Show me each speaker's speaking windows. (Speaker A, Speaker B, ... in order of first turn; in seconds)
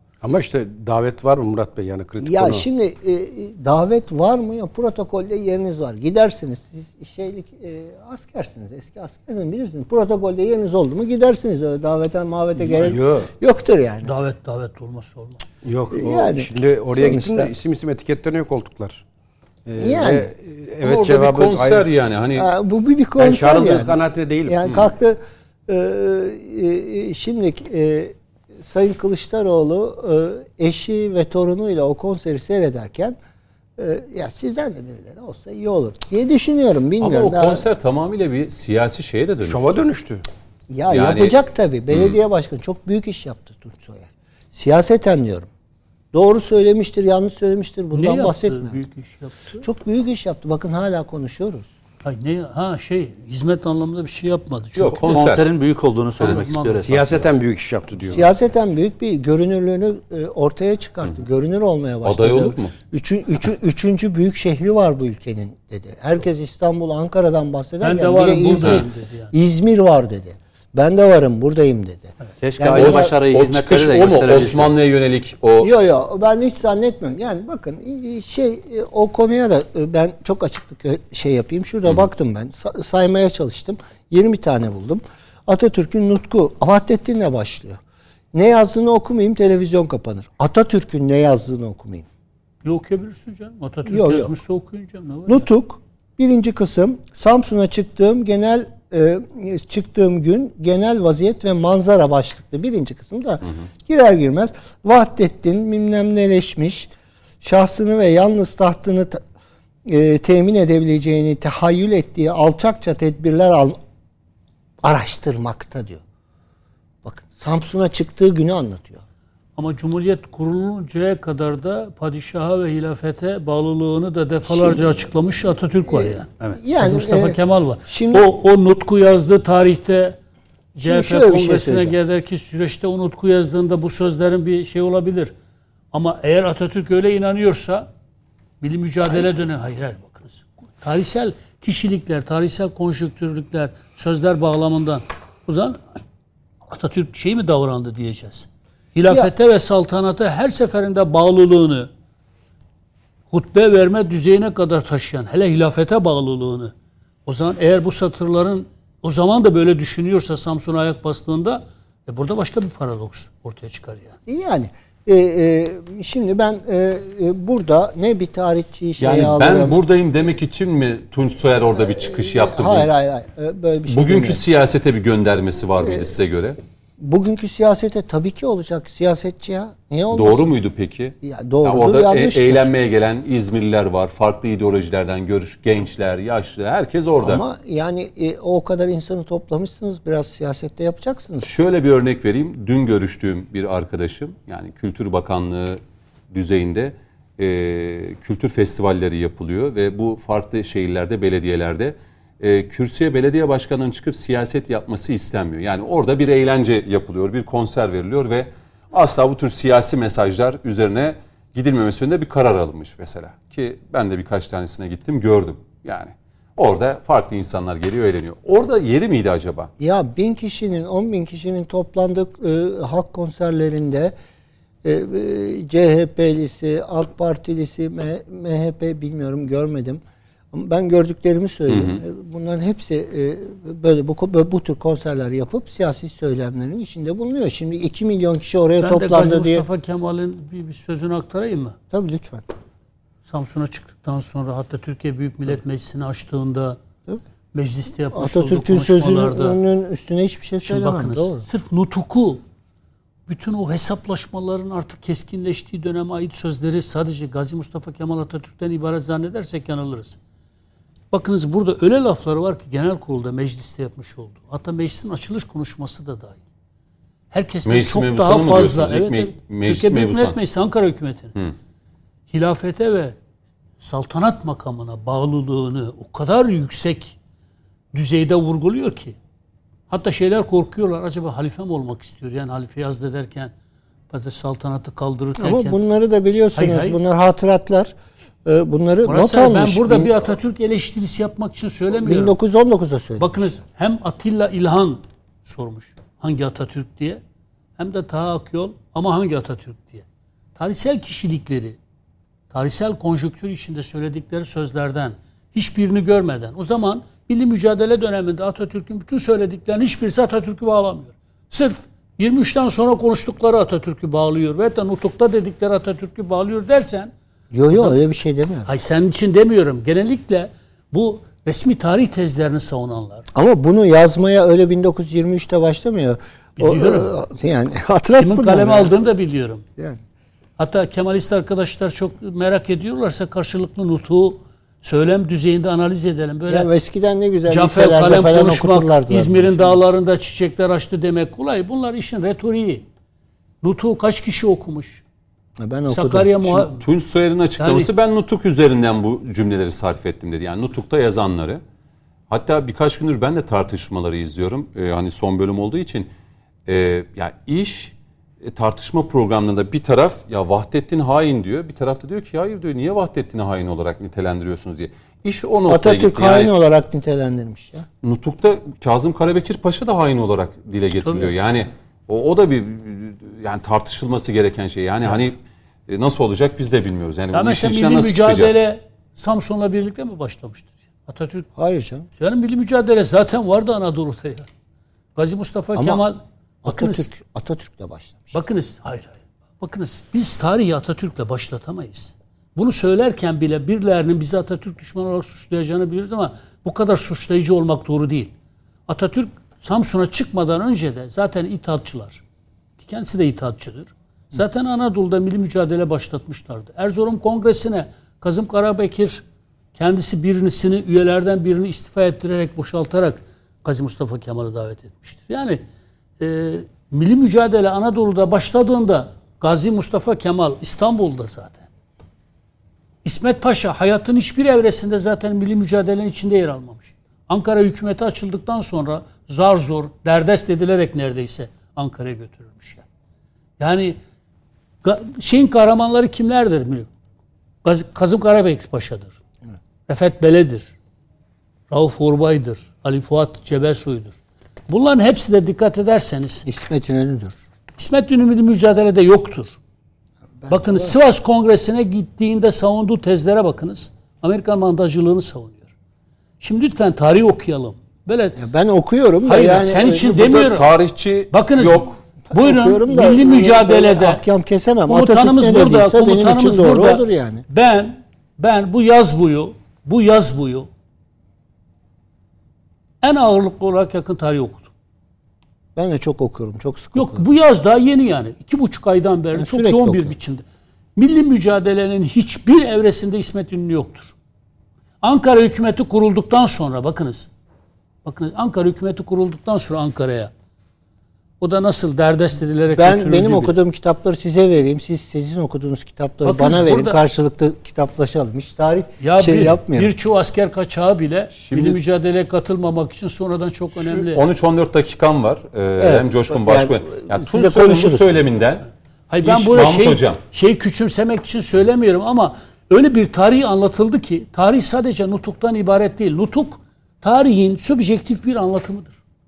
Speaker A: 0.2-2.6, 12.6-13.3, 15.6-19.0, 19.6-21.8, 23.2-24.6, 39.5-40.2, 56.8-58.3
Speaker B: 2.2-14.1, 15.9-17.5, 19.8-20.3, 22.4-33.2, 33.8-37.6, 40.7-45.5, 46.1-48.8, 49.6-51.7, 58.0-73.1, 75.6-87.8, 88.3-92.1, 93.9-94.3, 95.3-106.9, 107.4-109.2, 109.8-113.8, 114.8-116.0, 117.0-119.0, 124.4-124.9, 125.9-128.3, 130.8-131.9, 164.3-169.8, 171.8-174.4, 177.0-180.5, 181.2-182.7, 187.2-191.5, 219.8-224.1, 224.8-230.0, 230.5-239.6, 241.9-242.4, 248.1-251.4, 285.4-287.9, 288.4-290.3, 291.9-293.6, 317.5-318.7, 323.3-328.9, 336.5-339.8, 345.6-346.7, 365.7-367.9, 381.6-382.1, 385.7-386.0, 386.6-388.3, 446.4-447.4, 450.4-450.9, 458.4-460.2, 462.3-467.4, 475.8-477.2, 479.3-480.1, 492.7-499.9, 505.8-508.2
Speaker C: 14.0-15.4, 47.9-49.6, 52.0-55.3, 56.2-57.0, 67.8-69.3, 92.6-95.5, 119.6-130.2, 130.8-135.3, 135.9-137.9, 138.6-146.0, 146.7-151.9, 153.3-156.7, 157.2-164.2, 238.8-241.8, 243.3-246.8, 247.5-249.6, 250.6-252.4, 253.3-260.2, 261.1-266.4, 267.3-271.3, 272.3-273.2, 273.8-277.1, 277.9-279.1, 279.9-283.5, 284.1-285.9, 286.5-287.0, 289.0-292.3, 293.2-297.2, 297.8-300.0, 300.6-301.8, 302.5-317.1, 318.6-323.2, 326.6-327.1, 328.2-329.6, 330.6-336.7, 337.5-342.8, 343.6-345.0, 345.9-346.8, 347.6-347.9, 371.0-371.3, 377.3-381.5, 382.2-384.5, 385.1-387.1, 388.3-398.3, 398.9-402.2, 402.8-409.2, 409.8-415.6, 416.2-421.7, 423.0-432.8, 433.6-434.0, 434.8-436.9, 437.6-439.1, 439.9-440.7, 441.7-444.1, 444.7-446.4, 447.8-449.6, 450.5-455.7, 456.4-458.4, 459.2-460.7, 461.3-464.2, 464.9-470.7, 473.0-474.7, 476.9-480.4, 480.9-484.1, 485.0-487.3, 488.0-490.3, 491.4-493.5, 496.2-497.0, 499.0-504.2, 509.1-519.0
Speaker D: 20.8-22.5, 37.0-39.7, 40.9-41.4, 41.9-42.2, 54.8-55.4, 62.0-62.7, 72.8-75.8, 169.0-172.9, 173.9-176.6, 180.1-187.4, 191.4-195.8, 196.3-219.7, 231.7-232.0, 267.6-270.4, 346.8-351.6, 352.3-356.1, 356.7-366.5, 368.0-378.6, 460.0-461.9, 501.4-501.8, 503.8-508.6, 509.2-510.2
Speaker E: 55.0-57.3, 72.4-74.7